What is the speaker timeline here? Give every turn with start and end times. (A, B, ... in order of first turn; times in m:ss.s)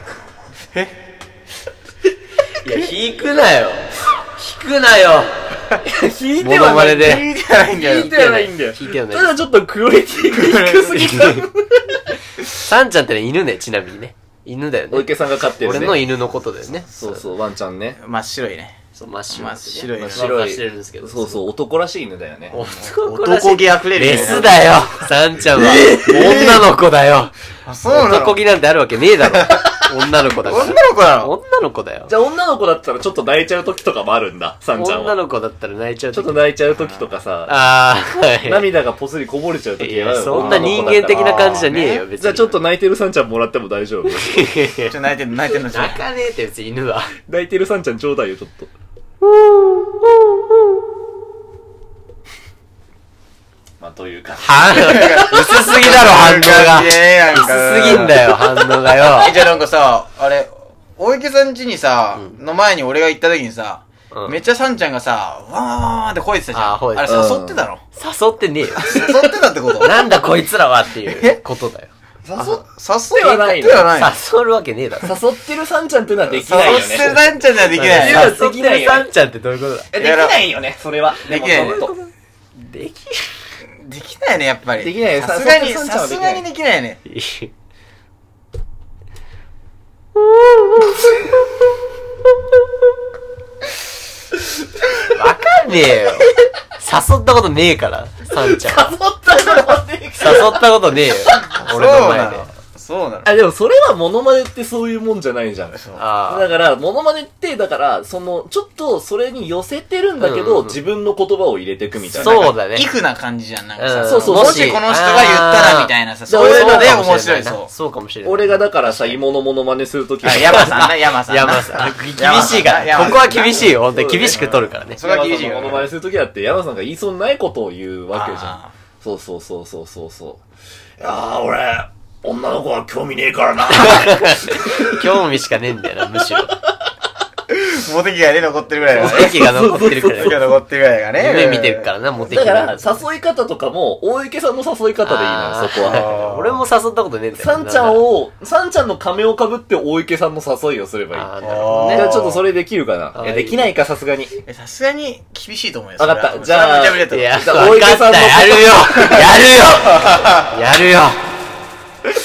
0:02.6-0:05.3 A
0:05.8-0:12.1 B
0:06.4-0:07.3 A
0:06.6-0:08.1 C
0:08.1-0:09.3 A
0:10.3-0:11.2 C
0:11.1-0:11.5 A
0:12.4-0:17.3 A
0:14.9-0:16.1 B
0:16.8-0:18.0 B
0:18.0-0:18.8 C
0:19.0-0:21.4 A
0:19.3-0:20.4 C
0:20.0-0:22.7 B
0:22.5-0:24.8 C
0:22.5-0:27.3 A
0:24.1-0:24.6 B
0:25.7-0:26.6 B
0:25.8-0:26.6 C
0:27.7-0:28.4 C
0:27.9-0:32.1 A
0:29.2-0:29.7 C
0:30.4-0:31.3 C
0:32.1-0:35.2 B
0:34.8-0:36.4 A
0:36.1-0:37.6 B
0:36.7-0:37.1 C
0:37.5-0:38.7 A
0:38.4-0:44.4 B
0:39.8-0:42.6 A
0:40.3-0:42.0 C
0:44.1-0:44.9 A
0:44.8-0:46.0 C
0:45.6-0:47.2 A
0:47.3-0:48.7 B
0:49.3-0:50.4 A
0:53.8-0:55.5 B
0:54.4-0:59.4 A
0:54.7-0:58.4 C
0:59.2-1:07.8 C
1:04.1-1:04.4 A
1:06.5-1:07.3 A
1:07.1-1:07.6 B
1:08.0-1:09.2 A
1:08.8-1:10.1 C
1:09.8-1:11.9 A
1:11.1-1:11.4 C
1:12.2-1:13.9 B
1:12.4-1:14.2 C
1:13.9-1:15.2 A
1:15.0-1:17.2 B
1:16.3-1:18.4 C
1:16.7-1:19.9 A
1:17.9-1:19.1 B
1:19.9-1:22.0 B
1:20.0-1:20.5 C
1:21.3-1:21.9 C
1:21.5-1:22.0 A
1:22.6-1:23.3 A
1:23.8-1:27.0 C
1:24.8-1:26.4 B
1:27.1-1:27.5 A
1:30.4-1:31.1 A
1:35.0-1:39.0 A
1:38.4-1:40.6 B
1:40.2-1:42.5 A
1:41.5-1:43.3 C
1:43.2-1:52.5 B
1:45.7-1:46.0 C
1:46.0-1:46.5 A
1:50.2-1:50.8 A
1:52.0-1:57.7 C
1:52.2-1:52.9 A
1:53.8-1:59.2 A
1:54.0-1:54.8 B
1:56.3-1:57.1 B
1:58.2-2:00.9 B
2:00.2-2:05.9 C
2:00.3-2:05.0 A
2:01.8-2:02.7 B
2:03.9-2:04.4 B
2:05.0-2:10.4 B
2:08.1-2:08.7 C
2:11.0-2:15.1 B
2:13.7-2:16.6 A
2:17.5-2:21.9 C
2:18.9-2:20.5 A
2:19.0-2:20.5 B
2:21.2-2:22.9 A
2:22.3-2:26.1 B
2:25.0-2:28.0 A
2:25.8-2:26.7 C
2:27.4-2:34.4 B
2:31.1-2:32.1 A
2:31.4-2:32.4 C
2:33.1-2:33.7 A
2:34.4-2:37.5 C
2:36.0-2:39.4 B
2:37.1-2:41.2 A
2:39.0-2:40.6 C